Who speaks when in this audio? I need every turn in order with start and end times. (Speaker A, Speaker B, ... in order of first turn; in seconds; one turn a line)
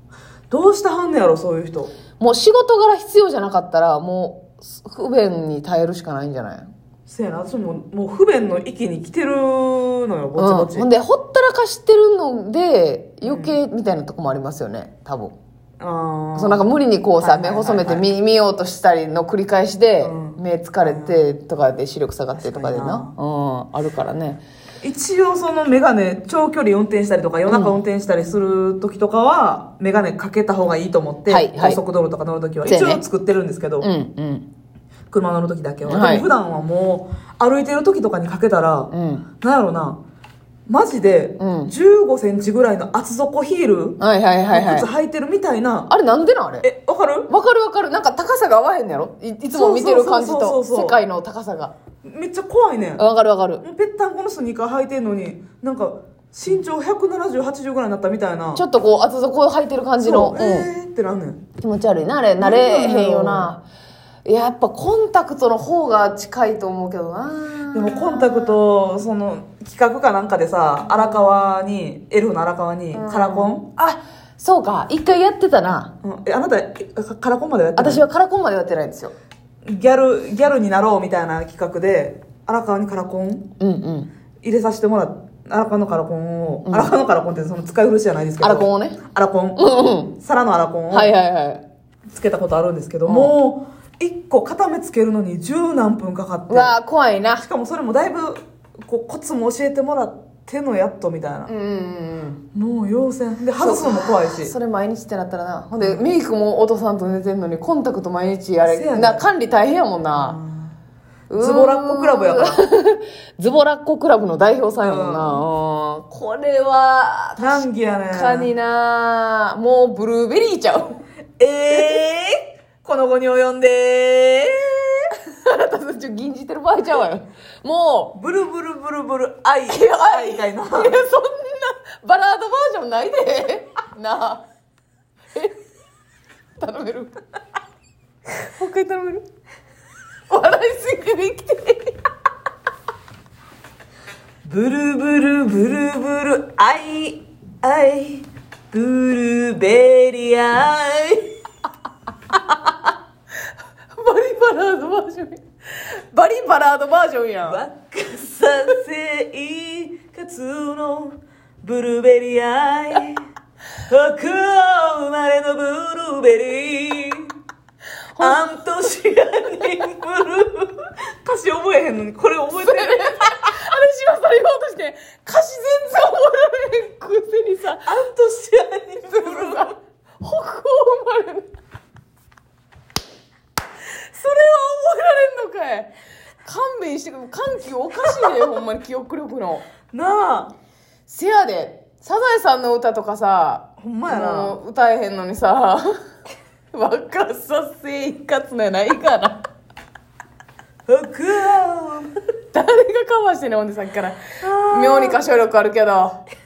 Speaker A: 0.5-1.9
Speaker B: 2.2-6.7
Speaker A: 7.1-10.9
Speaker B: 10.4-15.3
Speaker A: 13.2-13.6
Speaker A: 15.8-18.1
Speaker B: 16.4-24.4
Speaker A: 20.0-21.2
Speaker A: 22.4-23.1
Speaker A: 24.8-33.9
Speaker B: 27.5-27.8
Speaker B: 31.3-31.8
Speaker B: 32.6-33.0
Speaker B: 33.8-34.5
Speaker A: 35.1-40.0
Speaker B: 35.9-36.3
Speaker B: 38.9-39.2
Speaker A: 40.7-44.0
Speaker B: 41.4-41.7
Speaker B: 44.0-44.9
Speaker A: 44.5-45.9
Speaker B: 45.9-46.6
Speaker A: 46.6-47.3
Speaker B: 47.3-51.7
Speaker A: 49.5-51.0
Speaker A: 52.0-53.0
Speaker B: 53.0-53.6
Speaker A: 53.6-58.6
Speaker B: 58.5-60.7
Speaker A: 60.0-61.4
Speaker B: 61.6-63.6
Speaker A: 62.4-63.5
Speaker B: 64.2-68.5
Speaker A: 67.7-73.7
Speaker B: 72.9-75.9
Speaker A: 76.0-78.0
Speaker B: 77.8-79.1
Speaker A: 79.6-83.5
Speaker B: 83.6-84.1
Speaker A: 84.4-91.1
Speaker B: 86.7-86.9
Speaker B: 88.4-89.0
Speaker B: 89.5-90.1
Speaker B: 90.9-91.6
Speaker A: 92.1-96.8
Speaker B: 93.0-93.3
Speaker B: 96.5-97.4
Speaker A: 97.4-101.5
Speaker B: 101.5-102.4
Speaker A: 102.5-104.5
Speaker B: 103.6-110.4
Speaker A: 105.8-106.1
Speaker A: 108.6-109.3
Speaker A: 110.1-110.7
Speaker B: 111.3-121.0
Speaker A: 111.3-112.7
Speaker A: 114.8-115.5
Speaker A: 117.4-118.5
Speaker A: 121.4-125.1
Speaker B: 121.7-122.0
Speaker B: 125.2-128.1
Speaker A: 128.1-131.0
Speaker B: 129.7-134.4
Speaker B: 135.3-135.6
Speaker B: 136.6-137.2
Speaker B: 138.4-139.2
Speaker B: 140.3-142.0
Speaker A: 144.4-151.3
Speaker B: 153.9-157.6
Speaker A: 157.4-163.2
Speaker A: 163.9-167.3
Speaker B: 168.1-168.7
Speaker A: 168.2-173.5
Speaker B: 172.5-178.0
Speaker A: 177.8-179.7
Speaker B: 179.0-181.5
Speaker B: 184.1-185.9
Speaker B: 186.4-189.6
Speaker A: 189.9-190.5
Speaker B: 191.1-195.9
Speaker A: 193.8-194.6
Speaker B: 196.7-199.4
Speaker A: 200.9-202.1
Speaker B: 202.5-206.2
Speaker A: 204.4-205.2